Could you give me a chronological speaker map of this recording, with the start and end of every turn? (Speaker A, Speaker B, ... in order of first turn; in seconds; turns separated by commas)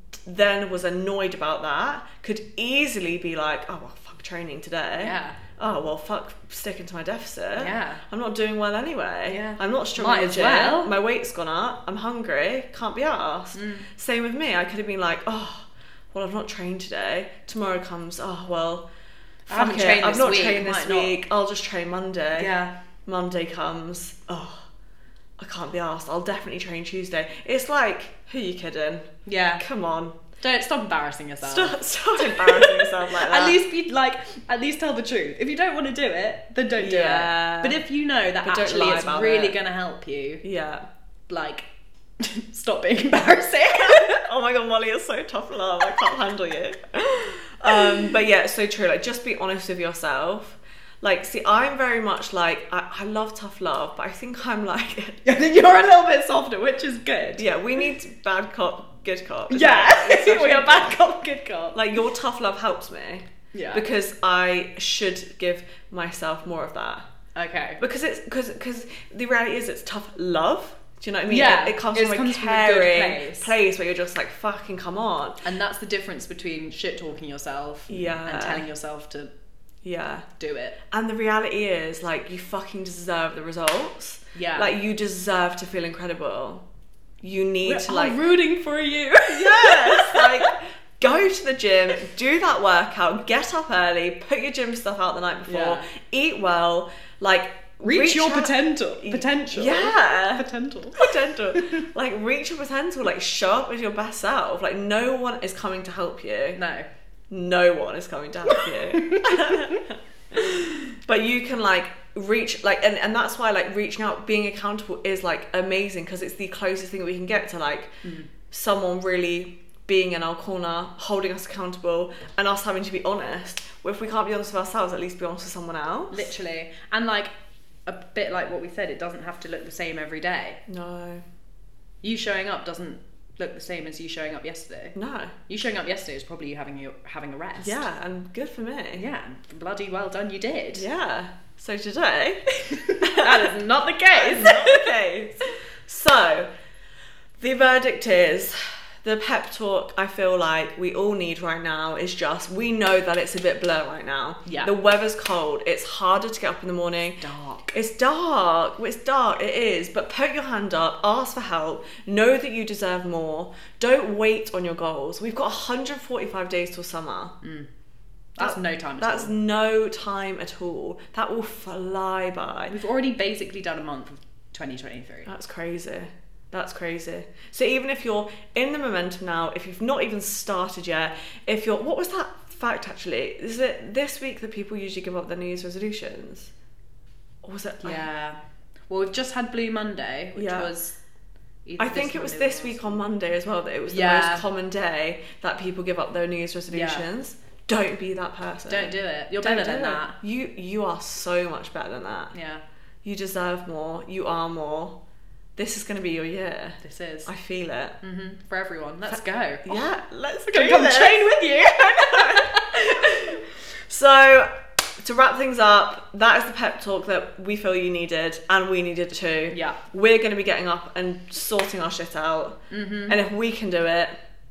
Speaker A: 0.2-18.9, Speaker B: 5.0-5.4, Speaker B: 7.5-8.0, Speaker B: 9.3-10.9, Speaker B: 13.5-13.9, Speaker A: 19.5-22.5, Speaker B: 19.5-21.2, Speaker B: 22.4-22.8, Speaker A: 23.1-24.7, Speaker A: 25.4-29.1, Speaker B: 29.2-29.6, Speaker A: 29.6-30.2, Speaker B: 30.4-40.4, Speaker A: 31.4-33.6, Speaker A: 36.8-37.8, Speaker A: 38.4-39.6, Speaker A: 40.4-40.8, Speaker B: 41.3-41.7, Speaker B: 42.2-44.2, Speaker A: 43.8-55.2, Speaker B: 55.2-57.9, Speaker A: 57.4-61.0, Speaker B: 59.5-61.8, Speaker A: 61.7-67.0, Speaker B: 63.5-63.9, Speaker B: 67.3-67.8, Speaker A: 67.8-75.4, Speaker B: 71.3-73.5, Speaker B: 75.4-79.3, Speaker A: 77.9-78.7, Speaker A: 79.8-80.3, Speaker B: 80.4-80.8, Speaker A: 80.9-86.6, Speaker B: 84.3-84.7, Speaker A: 87.2-88.2, Speaker B: 87.6-90.5, Speaker A: 89.3-100.4, Speaker B: 95.5-95.8, Speaker B: 97.8-101.8, Speaker A: 101.0-106.6, Speaker B: 106.5-106.9, Speaker A: 107.3-117.9, Speaker B: 108.9-109.8, Speaker B: 118.0-118.3, Speaker A: 118.5-126.3, Speaker B: 126.1-127.3, Speaker B: 127.8-130.6, Speaker A: 130.7-131.2, Speaker B: 132.0-134.9, Speaker A: 134.9-135.3, Speaker B: 135.5-137.8, Speaker A: 137.6-139.1, Speaker B: 138.9-140.9, Speaker A: 140.7-143.6, Speaker B: 142.7-144.9, Speaker A: 144.1-146.5, Speaker A: 147.4-167.4, Speaker B: 154.4-154.7, Speaker B: 157.2-157.7, Speaker B: 167.4-167.7, Speaker B: 168.3-169.3, Speaker A: 168.4-172.8, Speaker B: 172.7-175.3, Speaker A: 175.2-186.5, Speaker A: 187.4-188.0, Speaker B: 187.8-190.9, Speaker A: 190.3-190.7, Speaker B: 191.6-193.0, Speaker A: 191.8-202.3, Speaker B: 193.9-194.5, Speaker B: 196.7-197.1, Speaker B: 198.7-200.2, Speaker B: 202.3-202.6, Speaker A: 203.0-205.0, Speaker A: 205.6-208.0, Speaker B: 206.8-207.3, Speaker B: 208.0-209.9, Speaker A: 209.1-224.1, Speaker B: 210.5-213.1, Speaker B: 219.5-219.8, Speaker B: 222.7-223.2